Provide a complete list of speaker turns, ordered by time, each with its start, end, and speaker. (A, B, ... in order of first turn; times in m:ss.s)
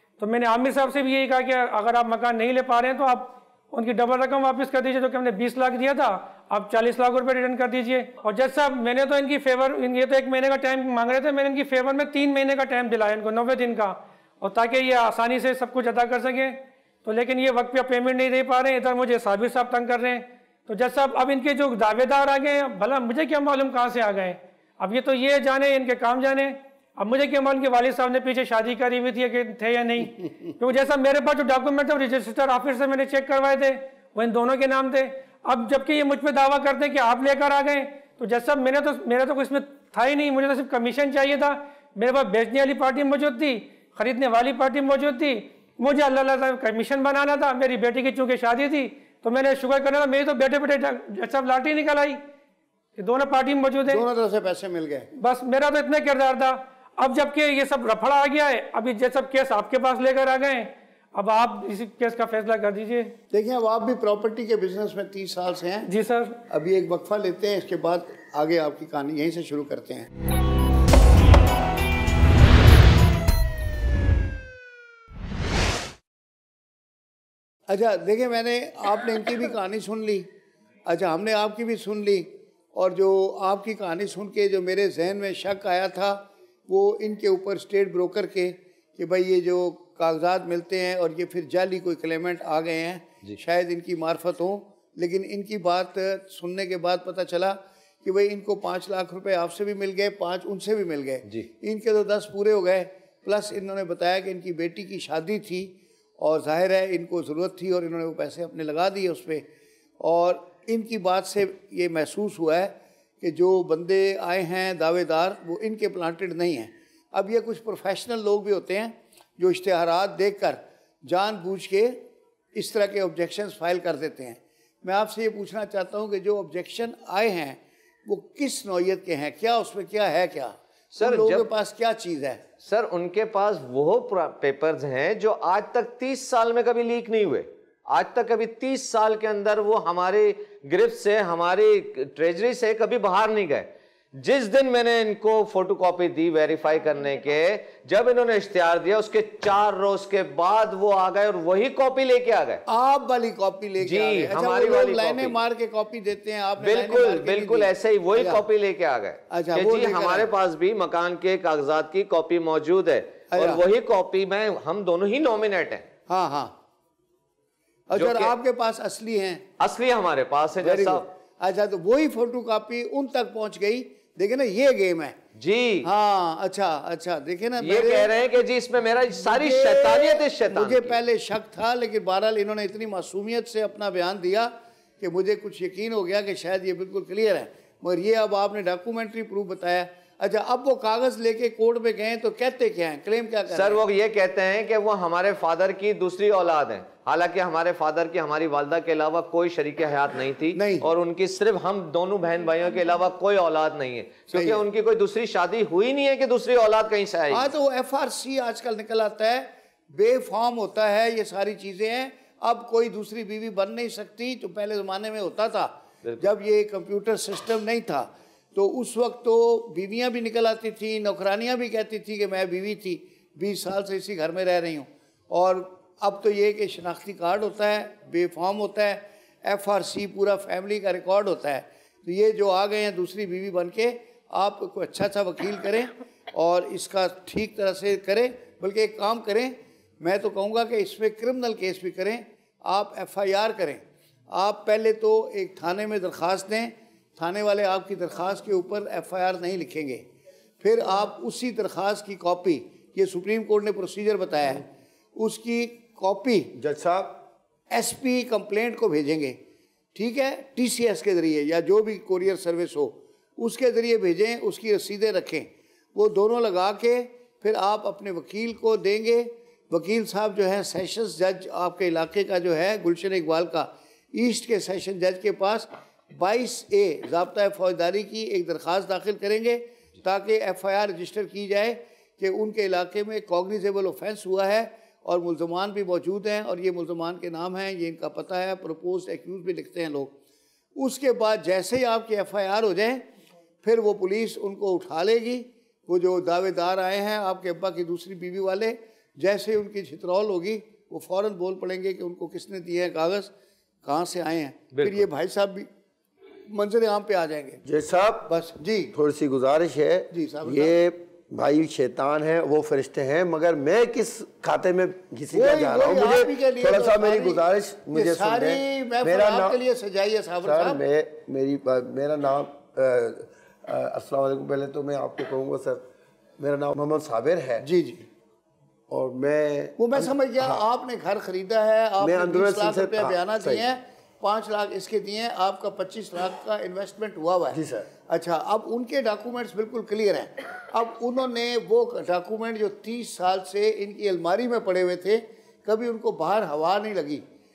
0:00.2-0:52.2 A
0:53.0-0:54.0 A
0:53.8-0:55.1 B
0:55.2-1:03.1 A
1:03.3-1:05.9 B
1:05.9-1:06.4 A
1:06.5-1:10.1 B
1:17.7-1:20.3 B
1:20.8-1:49.4 B
1:50.0-2:02.0 B
2:02.5-2:12.4 B
2:11.0-2:11.5 C
2:12.6-2:32.6 C
2:32.7-2:38.4 B
2:33.8-2:35.4 C
2:36.6-2:45.9 C
2:39.3-2:40.3 B
2:43.3-2:43.6 B
2:46.1-2:46.5 B
2:47.9-2:49.4 B
2:47.9-2:48.3 C
2:49.6-2:51.1 C
2:50.6-2:55.2 B
2:55.4-2:55.9 C
2:55.8-2:58.1 B
2:57.6-3:01.0 C
2:59.2-3:13.8 B
3:13.5-3:27.5 C
3:20.5-3:20.9 B
3:24.3-3:24.6 B
3:27.3-4:10.0 B
4:10.6-4:16.5 B
4:16.6-4:17.2 D
4:17.7-4:19.4 B
4:19.9-4:50.1 B
4:50.8-4:53.1 B
4:53.6-5:03.3 B
5:03.8-5:05.7 B
5:04.7-5:05.1 C
5:06.5-5:07.6 B
5:07.6-5:08.4 D
5:08.3-5:08.9 B
5:08.9-5:19.6 D
5:10.1-5:10.8 B
5:15.3-5:20.8 B
5:20.4-5:25.8 D
5:26.4-5:27.6 D
5:27.6-5:28.1 B
5:28.9-5:30.6 D
5:29.8-5:47.2 B
5:32.0-5:33.6 D
5:37.5-5:37.9 D